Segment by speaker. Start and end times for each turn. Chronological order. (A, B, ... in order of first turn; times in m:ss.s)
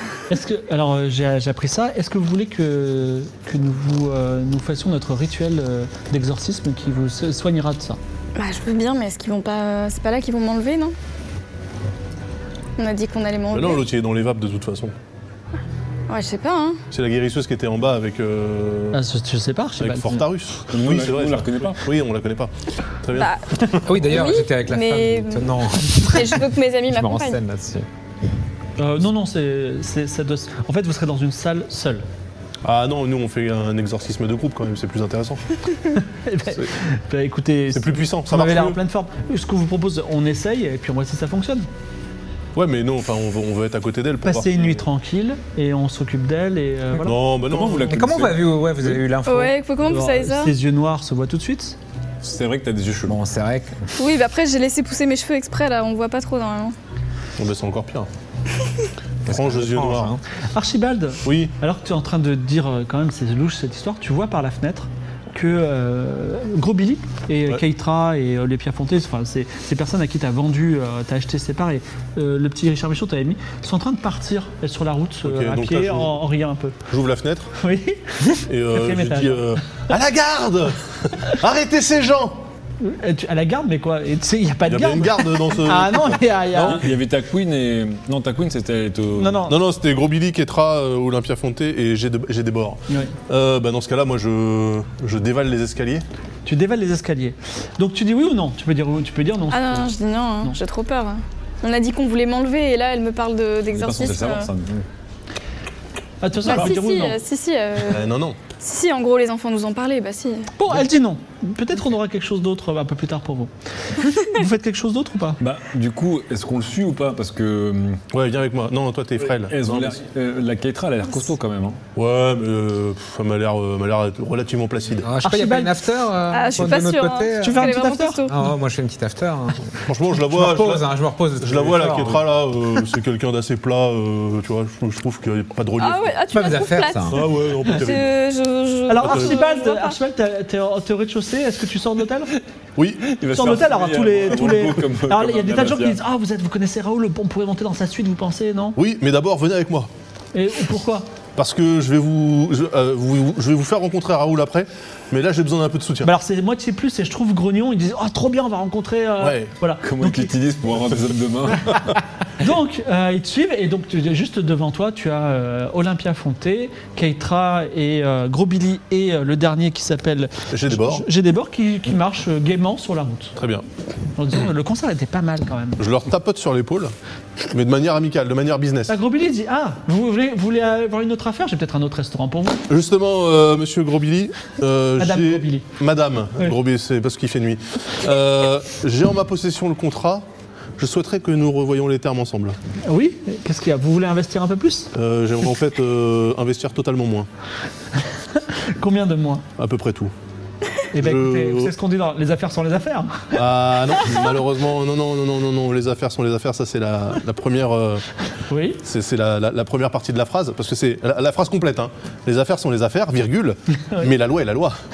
0:00.3-0:08.0 A
0:08.4-0:10.9 B
0:12.8-0:13.8 B
0:13.5-0:14.9 C
0:16.1-0:16.8 B
0:16.9-0:19.0 C
0:18.9-0:20.1 A
0:19.8-0:24.1 C
0:20.7-0:21.8 D
0:23.1-0:27.4 B
0:23.8-0:27.9 E
0:28.8-0:32.0 A
0:32.6-0:35.4 C
0:36.0-0:41.7 A
0:37.7-0:38.8 C
0:42.5-0:44.8 C
0:44.2-0:47.2 A
0:47.0-0:48.2 C
0:47.5-0:48.9 D
0:47.8-0:49.5 E
0:49.2-0:50.5 B
0:49.8-0:51.8 A
0:52.2-0:53.2 D
0:53.1-0:53.8 E
0:54.0-0:56.7 B
0:57.4-0:58.1 C
0:59.2-1:00.2 C
0:59.2-1:00.2 E
1:00.5-1:16.8 A
1:01.2-1:01.5 C
1:15.2-1:16.2 C
1:16.9-1:17.5 C
1:17.6-1:19.5 A
1:18.5-1:22.4 C
1:22.8-1:26.8 A
1:24.6-1:26.8 C
1:26.6-1:29.4 D
1:29.2-1:29.6 A
1:29.5-1:36.0 C
1:32.9-1:33.1 A
1:36.4-1:39.9 A
1:39.5-1:44.5 B
1:43.7-1:44.7 D
1:46.2-1:47.2 A
1:46.4-1:48.0 B
1:47.9-1:48.4 C
1:48.6-1:50.5 B
1:50.6-1:55.4 A
1:55.4-1:58.0 D
1:58.1-2:00.0 C
1:59.4-2:01.8 D
2:01.9-2:05.1 C
2:05.0-2:07.7 E
2:05.2-2:05.7 A
2:06.3-2:08.3 B
2:07.4-2:08.2 A
2:08.3-2:12.2 E
2:09.8-2:16.1 C
2:15.8-2:20.0 B
2:16.3-2:17.2 E
2:17.1-2:18.1 C
2:18.9-2:22.3 A
2:19.0-2:19.3 C
2:22.8-2:23.1 C
2:23.0-2:26.0 D
2:23.3-2:28.8 A
2:28.8-2:29.9 C
2:30.3-2:31.1 A
2:31.4-2:36.1 C
2:36.0-2:40.3 A
2:39.2-2:39.5 C
2:39.8-2:41.9 D
2:42.4-2:53.3 A
2:50.5-2:51.0 C
2:53.4-2:53.6 C
2:54.2-2:55.8 A
2:55.8-2:56.9 C
2:57.5-2:58.9 C
2:58.9-3:02.6 A
3:02.7-3:10.2 C
3:05.0-3:05.6 A
3:10.8-3:12.6 C
3:12.8-3:14.9 A
3:14.9-3:17.3 C
3:18.4-3:19.4 A
3:19.6-3:20.1 C
3:20.9-3:23.4 A
3:21.0-3:21.7 C
3:23.3-3:28.0 C
3:28.5-3:28.8 A
3:28.8-3:34.7 C